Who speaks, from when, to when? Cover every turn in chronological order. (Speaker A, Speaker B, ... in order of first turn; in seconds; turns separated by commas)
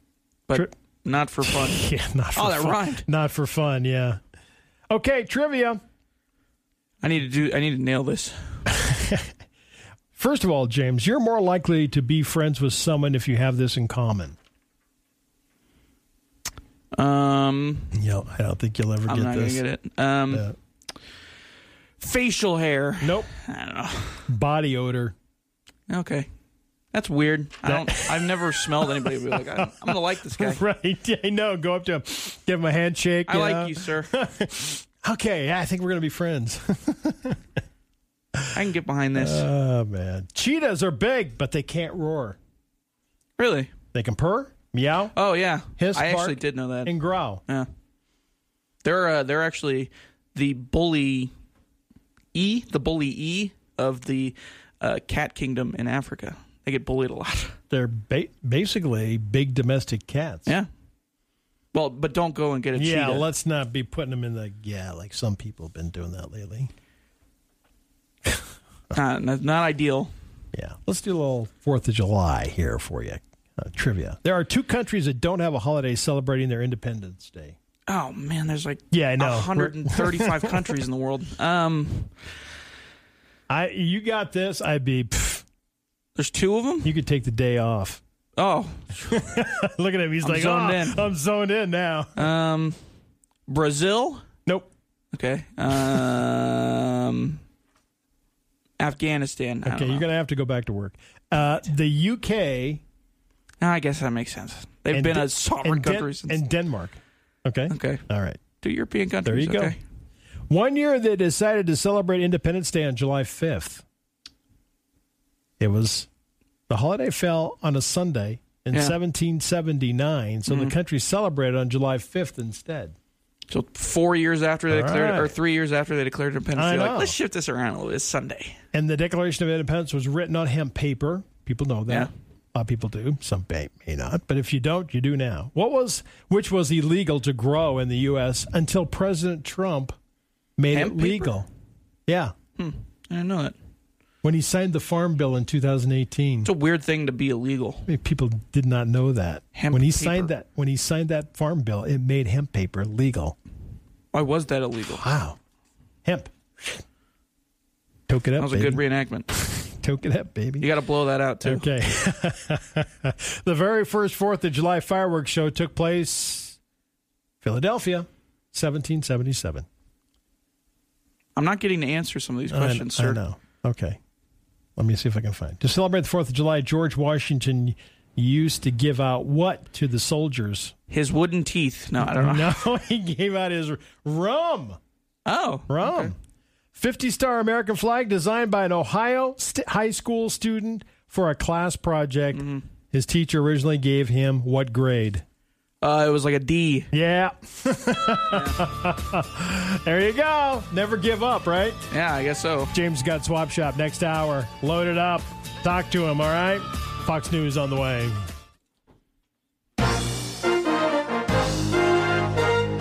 Speaker A: 0.5-3.0, Speaker B: 1.4-4.2, Speaker B: 4.9-5.8, Speaker A: 7.0-8.6, Speaker B: 8.7-9.3, Speaker B: 10.1-14.3, Speaker A: 16.9-17.9, Speaker B: 17.9-19.6, Speaker A: 19.1-20.5, Speaker A: 22.0-24.2, Speaker B: 23.0-23.3, Speaker B: 24.3-25.1, Speaker A: 25.9-26.3, Speaker A: 26.9-30.6, Speaker B: 27.6-37.4, Speaker A: 33.3-34.1, Speaker A: 38.5-39.5, Speaker B: 39.1-42.4, Speaker A: 43.4-43.7, Speaker B: 43.9-45.1, Speaker A: 45.1-47.6, Speaker B: 45.7-47.4, Speaker A: 48.8-51.3, Speaker A: 52.3-57.5, Speaker B: 57.7-60.5, Speaker A: 61.7-63.3, Speaker B: 62.7-66.7, Speaker A: 68.9-70.1, Speaker B: 70.5-77.6, Speaker A: 77.9-82.1, Speaker B: 78.9-80.7, Speaker B: 83.5-85.4, Speaker A: 86.2-86.9, Speaker B: 86.8-88.0, Speaker A: 88.4-89.2, Speaker B: 89.1-92.3, Speaker A: 90.2-91.1, Speaker A: 92.2-92.8, Speaker A: 93.5-94.2, Speaker B: 94.4-94.7, Speaker A: 95.1-97.4, Speaker A: 98.8-100.0, Speaker B: 99.6-102.8, Speaker A: 103.6-106.4, Speaker B: 104.9-108.4, Speaker A: 107.7-108.0, Speaker A: 108.6-109.8, Speaker B: 109.2-109.7, Speaker B: 110.5-113.8, Speaker B: 115.6-116.1, Speaker B: 116.7-122.9, Speaker A: 120.5-120.7, Speaker A: 123.5-128.6, Speaker B: 124.7-125.4, Speaker B: 126.5-127.1, Speaker B: 128.7-139.9, Speaker B: 140.6-141.5, Speaker A: 140.7-141.3, Speaker B: 142.1-142.3, Speaker A: 142.6-143.5, Speaker B: 144.2-146.5, Speaker A: 146.4-147.8, Speaker B: 147.8-153.3, Speaker A: 149.5-150.3, Speaker A: 154.1-155.0, Speaker B: 154.8-155.4, Speaker B: 156.0-156.8, Speaker B: 158.1-160.7, Speaker A: 158.4-159.3, Speaker A: 160.6-161.7, Speaker B: 161.4-166.6, Speaker B: 167.4-169.7, Speaker A: 171.3-173.2, Speaker B: 172.5-174.0, Speaker B: 174.8-180.7, Speaker A: 180.9-182.5, Speaker B: 182.0-184.8, Speaker A: 185.2-186.1, Speaker B: 185.7-186.1, Speaker B: 186.7-195.2, Speaker A: 192.3-192.6, Speaker A: 195.8-196.9, Speaker B: 196.9-201.8, Speaker A: 198.3-198.6, Speaker A: 201.9-202.7, Speaker B: 202.7-208.2